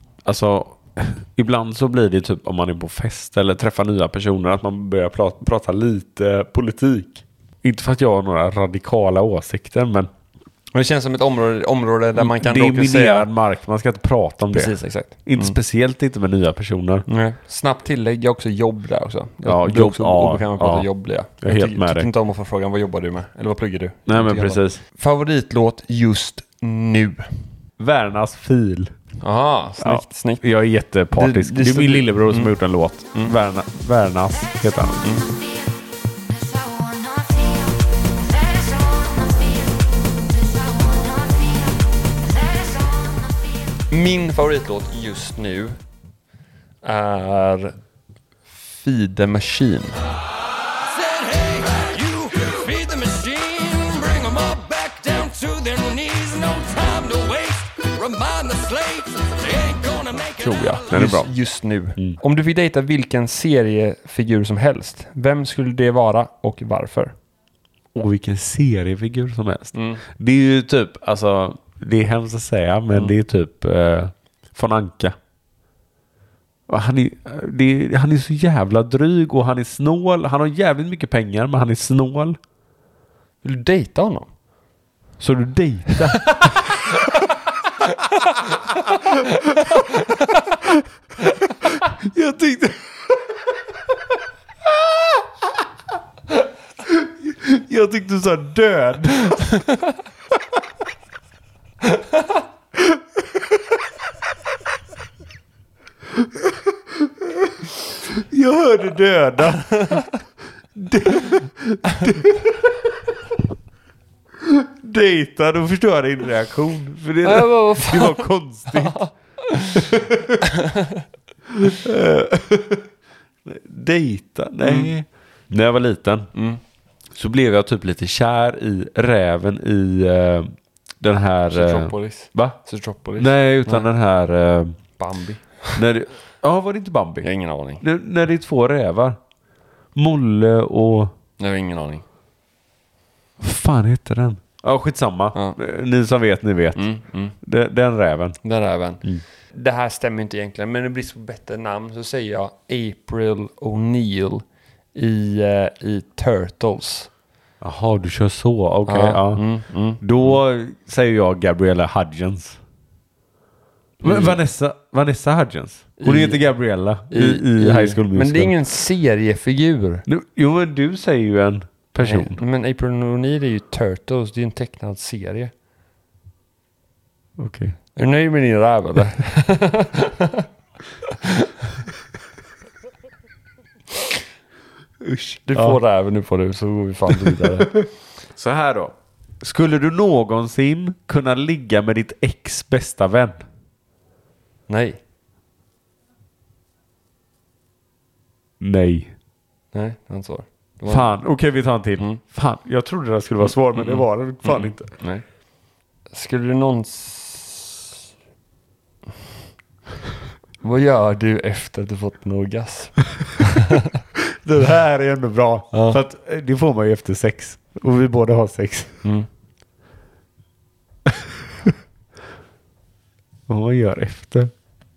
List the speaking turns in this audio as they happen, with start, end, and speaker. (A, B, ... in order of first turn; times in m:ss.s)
0:00.2-0:10.1 A
0:10.7-0:13.3 B
0:12.2-0:17.1 A
0:14.5-0:15.6 B
0:17.1-0:27.3 B
0:19.4-0:20.9 A
0:21.4-0:22.1 A
0:24.1-0:24.8 A
0:27.8-0:28.9 A
0:29.2-0:30.4 B
0:29.8-0:35.0 A
0:31.2-0:32.6 B
0:35.0-0:35.3 B
0:35.2-0:35.7 C
0:36.3-0:43.6 C
0:43.9-0:45.8 B
0:46.8-0:47.8 B
0:48.5-0:50.1 B
0:51.0-1:00.3 C
1:00.1-1:07.2 B
1:00.9-1:01.3 A
1:07.9-1:15.2 A
1:09.7-1:10.0 B
1:16.7-1:22.4 A
1:23.4-1:24.3 B
1:25.2-1:26.6 A
1:26.0-1:26.6 B
1:27.9-1:28.4 B
1:29.8-1:30.1 B
1:31.9-1:32.8 A
1:36.9-1:39.6 A
1:48.0-1:50.0 A
1:49.8-1:50.0 B
1:50.8-1:52.5 A
1:54.4-1:59.0 A
1:57.2-2:00.0 B
1:59.8-2:00.4 A
2:00.5-2:01.0 B
2:01.5-2:02.9 A
2:03.4-2:06.3 A
2:04.6-2:04.9 B
2:06.3-2:06.6 B
2:07.2-2:12.6 A
2:11.5-2:13.9 B
2:13.2-2:14.8 A
2:15.0-2:15.8 B
2:15.8-2:17.3 A
2:17.2-2:17.8 B
2:17.8-2:19.2 A
2:20.0-2:21.1 A
2:21.4-2:22.0 B
2:23.4-2:26.9 A
2:26.8-2:27.4 B
2:27.4-2:28.4 A
2:28.4-2:37.1 B
2:37.6-2:39.4 A
2:38.9-2:40.4 B
2:40.0-2:42.6 A
2:44.0-2:48.5 A
2:44.0-2:44.4 B
2:46.0-2:46.4 B
2:47.1-2:50.0 B
2:50.1-2:52.4 A
2:52.0-2:55.5 B
2:57.4-2:57.8 A
2:58.0-3:00.5 B
3:01.0-3:01.5 B
3:05.0-3:05.8 A
3:05.5-3:07.8 B
3:08.4-3:13.4 A
3:14.7-3:15.0 B
3:18.6-3:19.1 A
3:19.7-3:21.1 B
3:20.9-3:24.9 A
3:23.4-3:25.2 B
3:26.1-3:27.9 B
3:30.6-3:33.9 B
3:34.4-3:39.0 A
3:35.7-3:36.0 B
3:43.5-3:44.5 A